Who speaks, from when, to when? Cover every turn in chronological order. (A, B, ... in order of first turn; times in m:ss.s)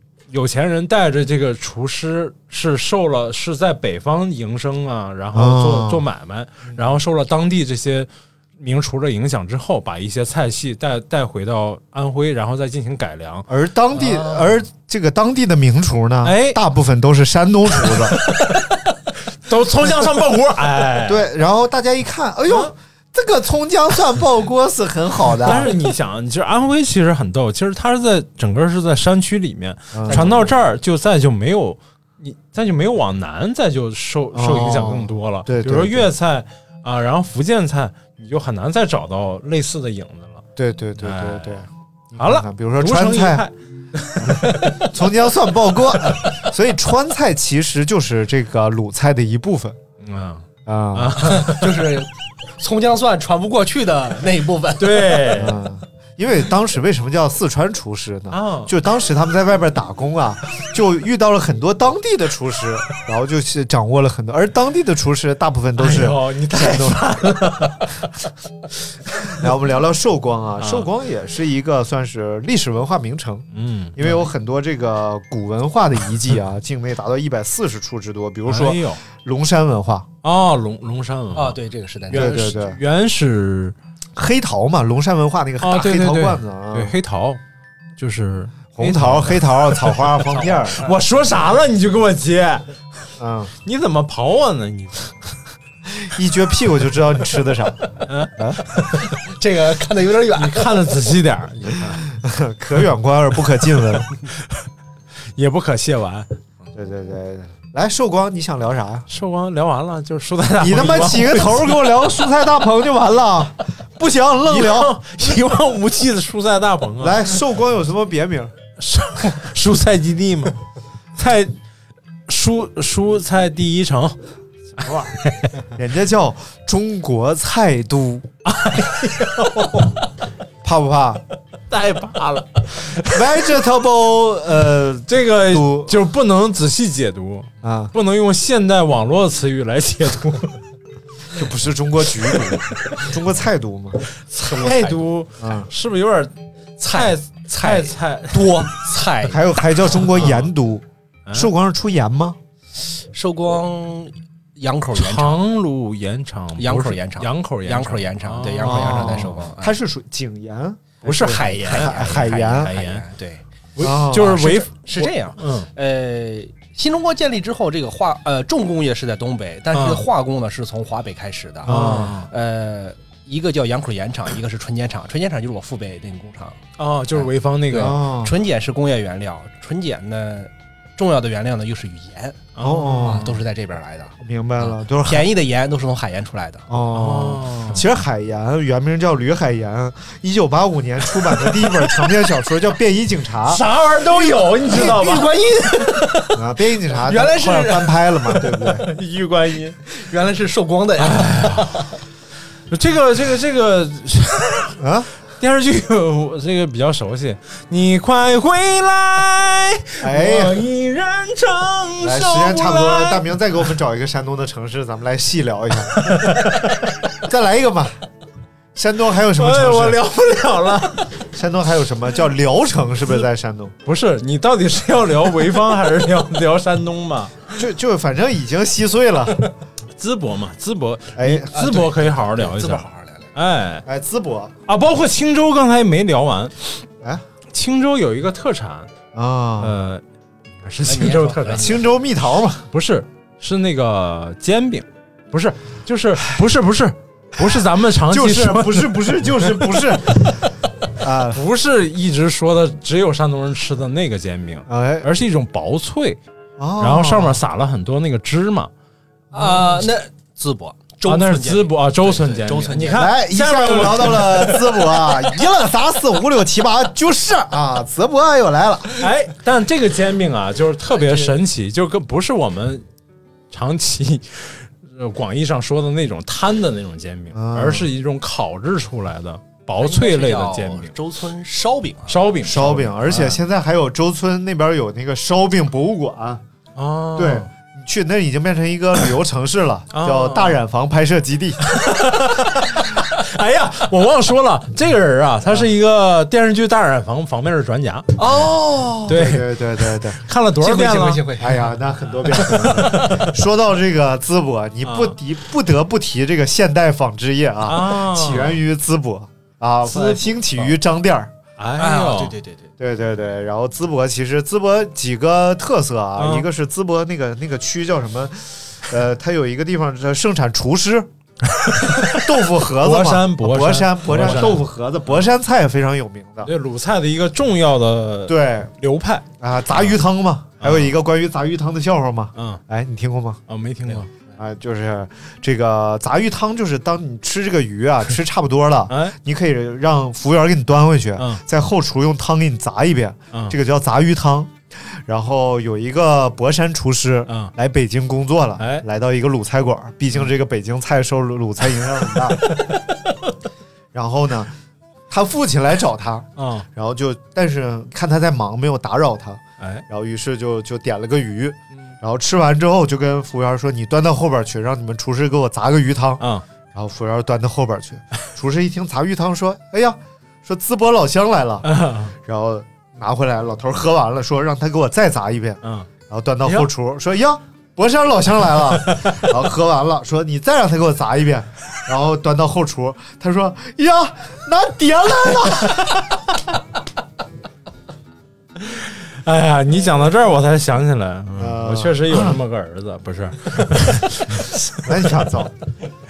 0:00.3-0:13.5 A
0:05.3-0:06.1 B
0:13.5-0:18.2 B
0:14.0-0:14.6 C
0:16.2-0:16.6 A
0:17.8-0:21.3 A
0:21.0-0:25.7 B
0:25.4-0:40.4 A
0:29.9-0:30.5 B
0:34.3-0:36.1 B
0:40.6-0:43.4 B
0:41.0-0:41.6 A
0:42.2-0:44.8 A
0:44.2-0:49.8 B
0:50.0-0:51.9 A
0:50.6-0:51.2 B
0:51.2-0:55.3 C
0:54.8-0:55.6 A
0:55.3-1:07.2 B
0:58.3-0:58.7 A
1:05.8-1:08.1 A
1:09.3-1:20.1 B
1:10.6-1:10.9 A
1:13.5-1:14.1 A
1:18.5-1:19.0 A
1:20.2-1:21.6 A
1:21.3-1:22.5 C
1:22.1-1:23.8 A
1:22.1-1:22.8 B
1:24.1-1:27.0 B
1:25.6-1:27.4 A
1:28.0-1:32.7 A
1:28.8-1:30.8 B
1:30.3-1:30.9 C
1:33.2-1:33.5 B
1:33.6-1:35.4 A
1:35.9-1:38.6 B
1:38.0-1:39.1 A
1:38.9-1:41.0 C
1:40.3-1:42.0 A
1:42.0-1:44.1 B
1:44.4-1:44.7 A
1:45.4-1:46.3 A
1:46.7-1:49.1 B
1:49.1-1:51.9 A
1:50.6-1:54.9 B
1:54.4-1:57.3 A
1:57.0-1:58.5 B
1:58.8-2:00.6 A
2:01.2-2:01.5 A
2:02.3-2:04.2 A
2:04.8-2:05.5 A
2:05.7-2:08.3 B
2:08.4-2:09.9 A
2:10.6-2:11.2 B
2:11.7-2:13.4 A
2:13.0-2:15.9 B
2:15.1-2:20.6 A
2:17.6-2:17.9 B
2:21.3-2:24.0 B
2:24.3-2:28.7 A
2:24.4-2:25.0 C
2:25.4-2:25.7 B
2:26.8-2:29.4 C
2:28.3-2:28.7 B
2:29.2-2:32.4 B
2:30.0-2:30.5 A
2:32.8-2:35.4 C
2:34.9-2:39.3 A
2:36.6-2:39.8 C
2:38.6-2:42.7 B
2:41.0-2:43.0 A
2:41.1-2:56.6 C
2:43.8-2:45.7 A
2:43.8-2:44.4 B
2:49.7-2:50.0 A
2:51.6-2:52.3 A
2:51.7-2:52.2 B
2:56.8-2:58.0 A
2:57.1-3:06.7 C
2:57.7-2:58.4 B
3:02.5-3:03.3 A
3:02.6-3:03.4 B
3:04.2-3:05.3 B
3:06.7-3:13.6 B
3:06.9-3:07.8 A
3:13.4-3:16.0 A
3:14.1-3:18.6 C
3:16.4-3:18.8 B
3:18.8-3:19.8 A
3:19.8-3:22.0 C
3:21.0-3:21.8 A
3:22.7-3:24.8 A
3:24.8-3:25.1 B
3:25.4-3:33.3 A
3:30.0-3:30.6 B
3:32.0-3:36.0 B
3:35.9-3:37.1 A
3:37.2-3:38.0 B
3:38.7-3:40.0 B
3:39.3-3:41.2 A
3:41.2-3:43.7 B
3:43.8-3:47.4 A
3:47.6-3:49.4 B
3:50.0-3:53.8 A
3:51.2-3:51.5 B
3:51.5-3:53.3 C
3:53.8-3:54.5 B
3:54.7-3:56.8 A
3:57.5-3:58.9 A
3:59.1-3:59.8 B
3:59.6-4:00.0 A
4:00.6-4:01.8 A
4:00.8-4:01.9 C
4:01.6-4:02.7 B
4:02.7-4:10.2 A
4:08.1-4:11.4 B
4:11.3-4:16.2 A
4:14.7-4:15.1 B
4:16.6-4:17.4 B
4:16.8-4:18.7 A
4:19.3-4:19.8 B
4:19.3-4:23.1 C
4:21.0-4:25.2 A
4:22.9-4:28.9 B
4:29.0-4:32.8 A
4:30.9-4:31.3 C
4:33.5-4:40.9 A
4:37.3-4:37.9 B
4:39.8-4:42.2 C
4:42.1-4:43.4 A
4:42.4-4:46.4 B
4:46.8-4:47.5 A
4:47.2-4:51.6 B
4:49.9-4:50.6 A
4:51.6-4:58.4 A
4:58.2-4:59.2 C
4:59.1-5:01.3 A
4:59.1-5:00.2 B
5:00.6-5:01.7 C
5:01.4-5:11.3 B
5:02.3-5:03.3 A
5:02.4-5:03.1 C
5:04.8-5:05.2 A
5:07.6-5:08.6 A
5:09.8-5:10.7 A
5:11.6-5:12.3 A
5:11.8-5:12.7 C
5:12.8-5:21.1 B
5:16.2-5:16.4 A
5:21.5-5:24.6 A
5:21.9-5:26.5 B
5:26.4-5:30.0 A
5:28.3-5:28.7 B
5:29.4-5:33.4 B
5:30.6-5:31.0 A
5:32.4-5:32.6 A
5:33.5-5:34.1 A
5:34.4-5:52.5 B
5:38.9-5:39.1 A
5:48.6-5:48.8 A
5:52.2-5:53.1 A
5:53.9-5:54.5 B
5:55.1-6:06.2 B
5:56.4-5:56.6 A
6:06.7-6:26.1 B
6:11.6-6:12.1 A
6:18.8-6:19.3 A
6:25.6-6:26.0 A
6:28.6-6:34.9 A
6:31.4-6:32.4 B
6:34.8-6:35.5 B